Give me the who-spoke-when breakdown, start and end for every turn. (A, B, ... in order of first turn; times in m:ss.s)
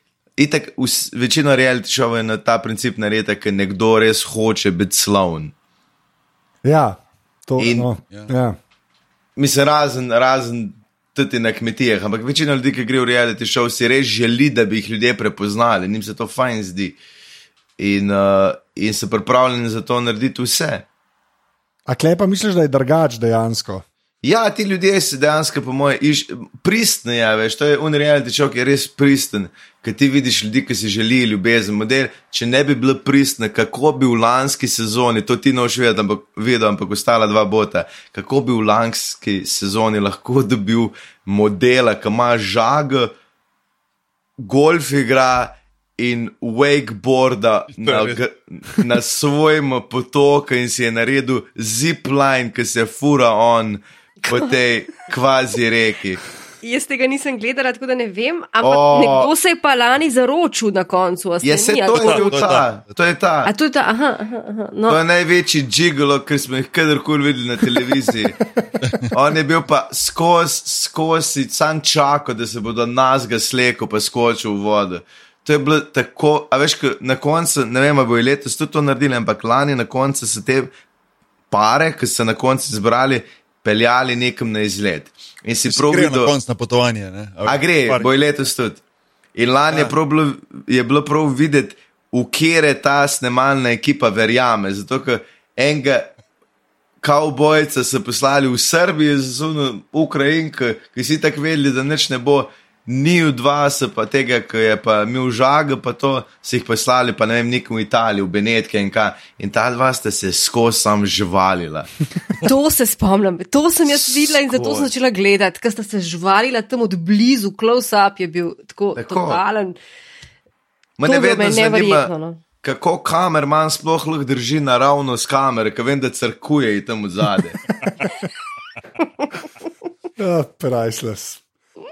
0:00.4-0:05.5 A
0:06.6-0:08.6 B
0:07.6-0:07.9 A
0:09.4-0:17.0 A
0:17.8-0:20.8 A
0:21.9-0:23.8 B
0:24.2-0:43.1 A
0:44.4-0:56.2 A
0:47.8-0:48.2 C
0:54.2-0:54.5 D
0:56.6-1:02.4 D
0:58.6-0:59.3 A
1:01.4-1:03.5 A
1:01.9-1:02.7 C
1:03.4-1:05.0 D
1:04.9-1:08.4 A
1:08.8-1:09.1 C
1:09.1-1:20.7 A
1:21.5-1:26.3 A
1:25.7-1:28.1 C
1:27.4-1:28.8 A
1:29.4-1:36.1 A
1:29.7-1:29.9 C
1:37.0-1:51.9 A
1:52.4-1:59.8 D
1:53.9-1:54.9 A
1:59.0-1:59.4 A
2:01.0-2:02.1 A
2:01.0-2:02.4 D
2:02.6-2:07.6 A
2:10.2-2:11.4 B